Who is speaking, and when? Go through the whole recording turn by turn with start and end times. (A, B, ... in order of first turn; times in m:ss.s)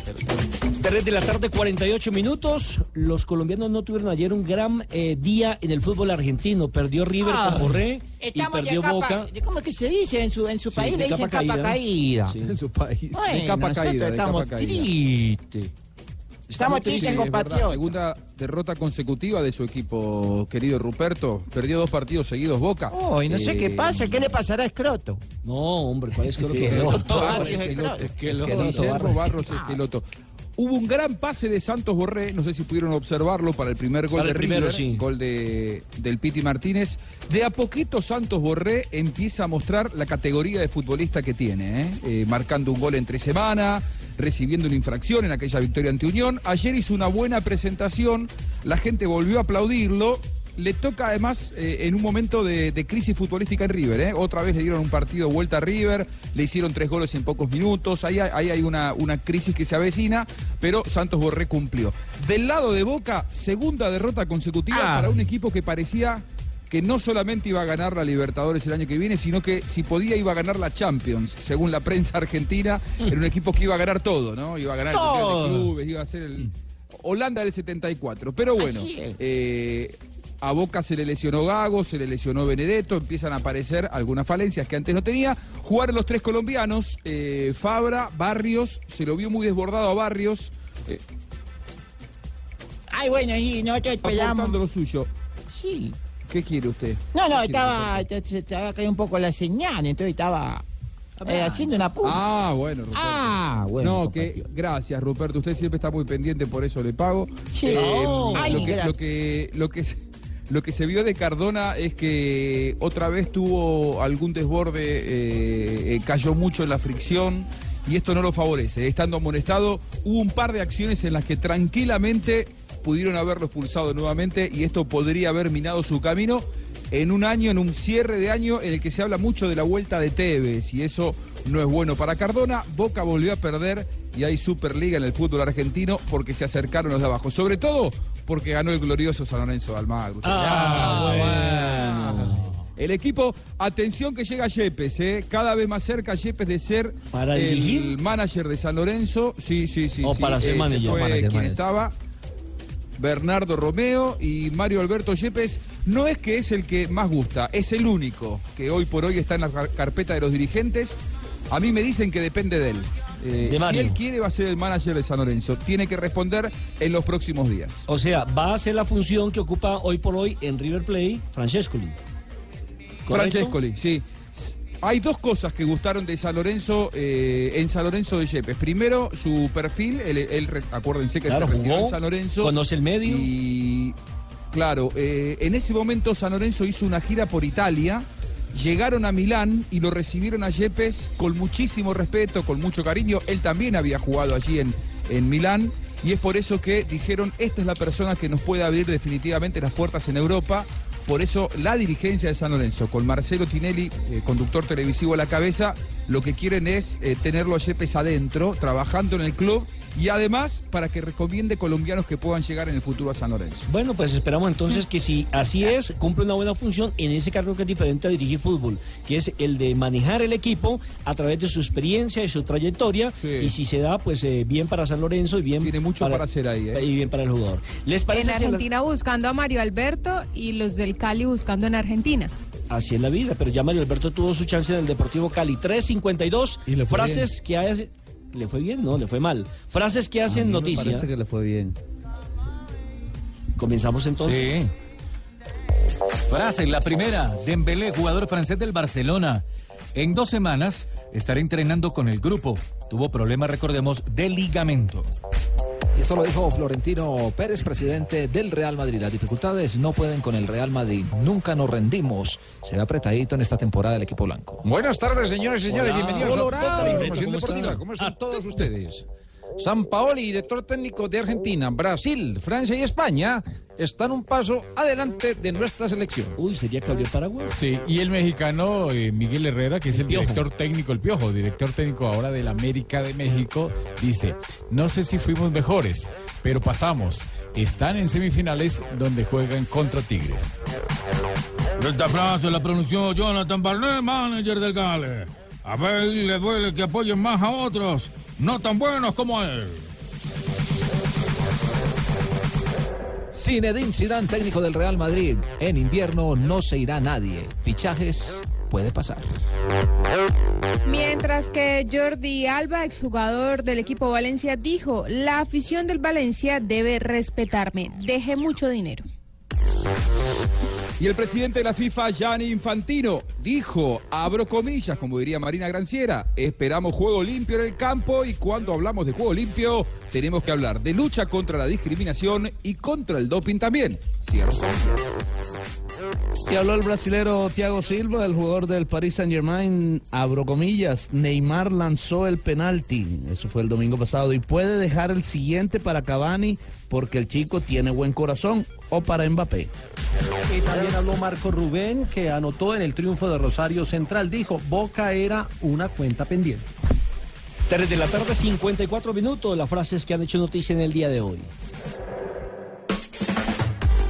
0:00.8-0:09.3 A
0:07.2-0:12.4 B
0:10.7-0:12.6 A
0:13.1-0:14.9 C
0:13.1-0:15.4 B
0:16.5-0:17.3 A
0:16.6-0:17.8 B
0:16.6-0:24.3 C
0:22.9-0:25.2 B
0:25.4-0:27.6 A
0:26.4-0:27.3 D
0:26.5-0:30.0 C
0:27.0-0:29.8 B
0:28.2-0:28.9 A
0:28.5-0:29.2 D
0:30.6-1:16.5 C
0:34.1-0:35.0 A
1:14.9-1:15.6 B
1:17.0-1:31.0 C
1:18.6-1:19.2 B
1:32.9-1:34.6 B
1:34.0-1:35.1 C
1:35.5-1:35.9 B
1:36.3-1:37.9 C
1:37.1-1:40.6 B
1:41.2-1:42.2 B
1:42.0-1:50.0 C
1:42.9-1:44.4 B
1:47.5-1:48.9 B
1:50.5-2:21.3 C
2:20.2-2:22.4 A
2:22.8-2:31.9 C
2:27.1-2:27.9 A
2:30.0-2:31.1 A
2:31.0-2:31.6 D
2:33.0-2:41.0 C
2:41.5-2:47.8 C
2:43.4-2:44.0 A
2:47.8-2:52.0 A
2:53.0-3:03.9 C
2:53.1-2:53.5 A
3:01.3-3:03.3 A
3:04.5-3:33.7 C
3:33.7-3:48.6 A
3:43.1-3:43.5 C
3:45.6-3:46.8 C
3:48.1-3:52.3 E
3:52.7-4:01.1 A
3:56.7-3:57.3 F
4:00.2-4:01.8 F
4:03.6-4:04.7 A
4:04.2-4:04.7 G
4:06.3-4:15.1 G
4:15.9-4:24.6 D
4:24.6-4:29.0 H
4:25.7-4:27.8 A
4:29.6-4:36.4 H
4:36.4-4:37.5 A
4:37.5-4:50.6 I
4:39.9-4:40.4 A
4:51.8-4:59.8 J
5:03.3-5:09.4 D
5:10.8-5:19.0 E
5:21.0-5:35.0 C
5:36.5-5:49.7 F
5:50.5-5:56.6 K
5:57.7-6:01.5 A